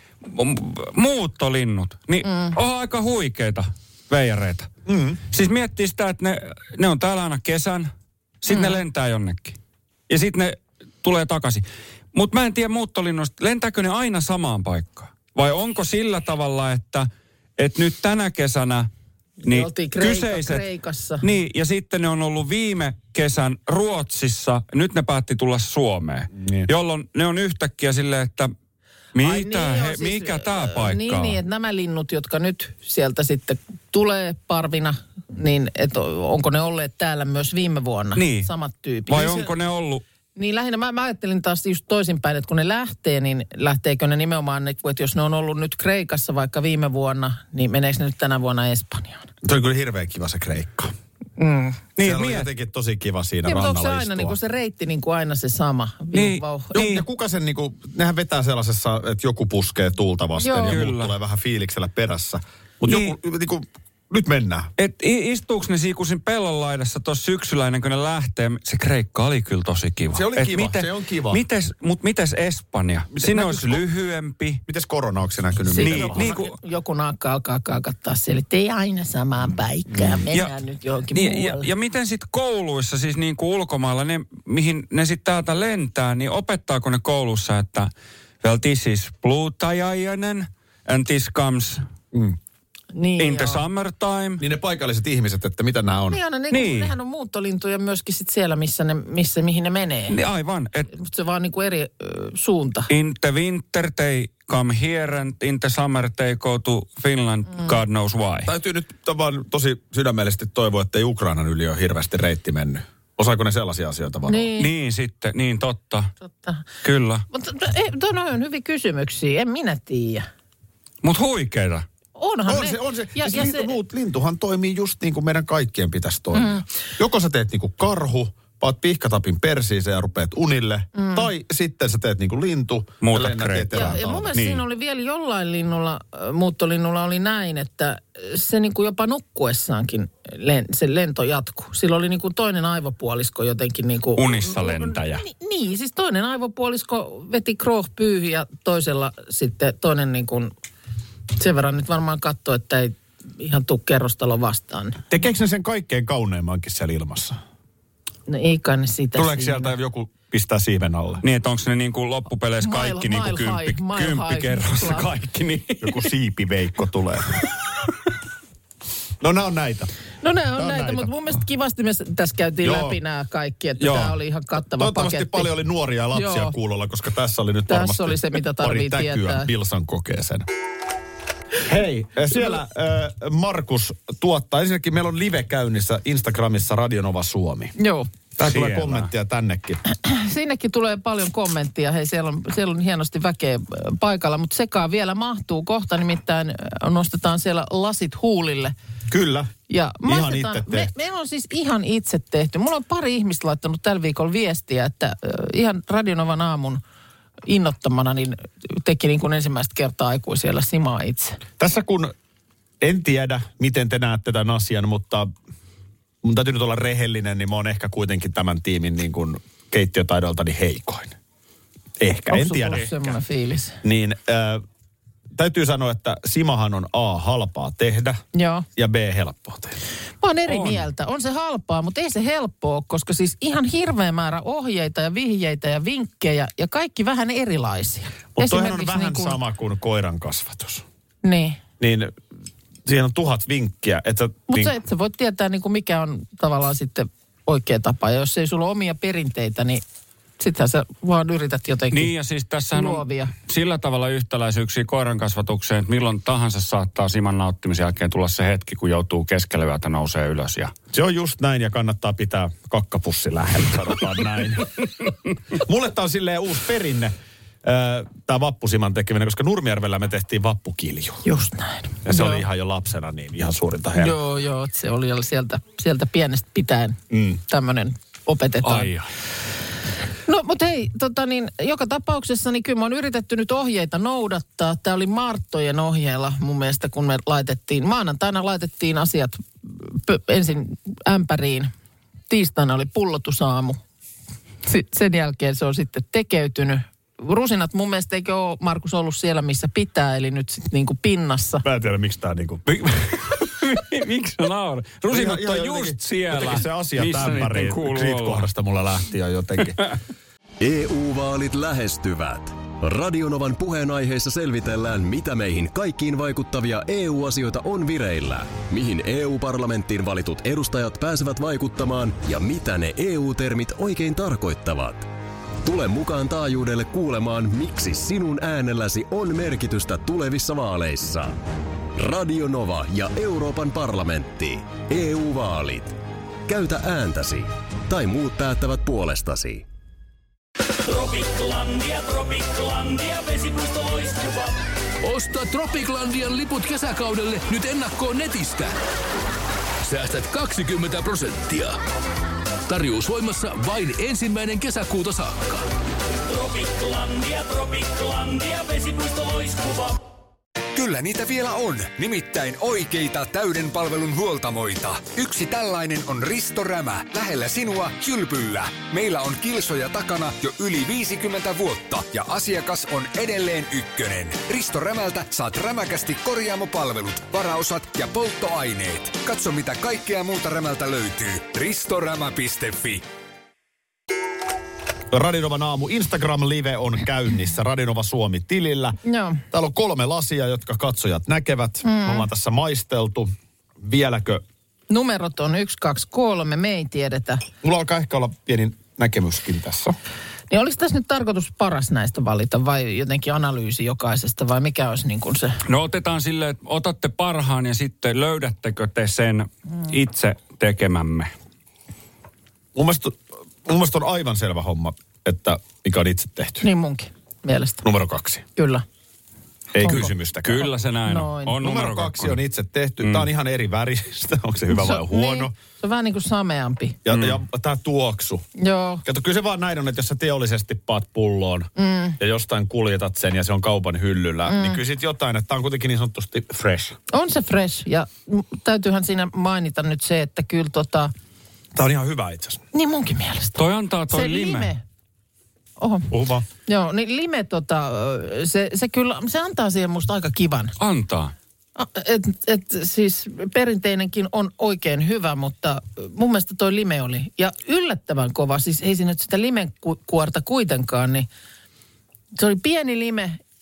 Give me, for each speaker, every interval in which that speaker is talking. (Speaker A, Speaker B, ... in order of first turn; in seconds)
Speaker A: 0.2-4.7, 5.3-7.9, 8.4-9.6, 10.1-18.9, 19.4-20.6, 21.2-28.5, 29.1-31.4, 38.1-38.5, 39.1-40.0, 52.0-52.5, 56.1-57.0, 60.7-61.1, 62.9-63.1, 64.8-74.6, 75.8-76.5, 81.1-87.9, 88.4-91.8, 93.2-94.4, 96.5-96.9, 100.1-100.9, 102.9-108.5, 114.6-116.1, 116.8-117.2, 121.0-121.8, 133.0-134.6, 144.2-145.2, 161.2-166.1, 188.4-189.1, 222.7-223.1, 230.5-230.8, 251.9-260.7, 278.6-279.1, 302.7-308.5, 405.7-411.3, 419.8-422.4, 423.0-423.3, 427.1-427.4, 443.6-444.7, 450.8-451.3
Speaker B: 2.2-2.6, 8.5-8.8, 19.4-21.2, 29.2-39.5, 40.4-49.3, 51.4-51.9, 53.4-57.0, 60.4-60.8, 75.7-81.7, 92.9-93.6, 96.1-100.2, 100.9-102.9, 114.2-114.7, 116.2-116.6, 117.3-120.3, 122.2-123.7, 126.3-126.6, 130.9-131.3, 133.7-150.5, 151.3-155.0, 158.3-159.7, 162.6-165.1, 170.2-175.5, 176.1-176.5, 177.7-179.5, 187.8-188.1, 189.9-198.7, 199.7-206.8, 207.4-211.4, 222.3-223.8, 228.3-228.7, 230.2-239.4, 241.2-241.6, 244.5-249.8, 250.4-252.1, 252.7-253.3, 271.2-272.4, 274.0-278.9, 280.2-291.7, 292.3-293.8, 294.6-301.6, 389.0-389.4, 391.8-392.2, 394.9-397.4, 400.5-405.6, 416.6-417.8, 418.6-418.8, 419.8-420.1, 421.1-421.6, 424.7-427.0, 428.6-429.0, 431.8-432.2, 434.5-434.8, 437.1-441.1, 442.7-444.8, 445.8-446.1, 446.6-450.7, 451.8-461.3, 462.4-463.4
Speaker C: 4.9-5.2, 26.4-26.7, 49.4-50.9, 52.0-54.4, 56.7-64.7, 70.1-71.4, 73.1-73.8, 74.7-76.3, 79.9-80.2, 94.4-96.2, 108.5-114.5, 122.5-134.3, 155.1-157.4, 159.1-161.2, 165.8-167.4, 169.2-169.9, 170.5-171.1, 172.6-173.0, 173.8-174.2, 174.7-180.4, 181.6-187.7, 188.4-189.8, 199.1-199.5, 200.0-200.9, 211.6-212.1, 212.8-215.3, 216.2-221.1, 222.0-222.9, 223.8-224.6, 225.3-228.2, 228.8-229.8, 238.3-240.8, 241.8-242.1, 242.8-244.8, 260.9-264.8, 265.5-271.2, 272.0-274.2, 277.1-277.4, 301.6-302.6, 305.1-309.8, 385.1-389.0, 389.5-394.4, 397.6-399.9, 412.7-416.7, 417.8-418.4, 419.7-420.7, 421.6-425.5, 427.0-428.4, 429.0-437.0, 441.7-442.6, 446.1-446.4
Speaker D: 310.6-325.1, 325.6-331.4, 331.9-339.6
Speaker E: 345.0-348.7, 349.8-351.8, 352.7-355.6
Speaker F: 360.7-383.0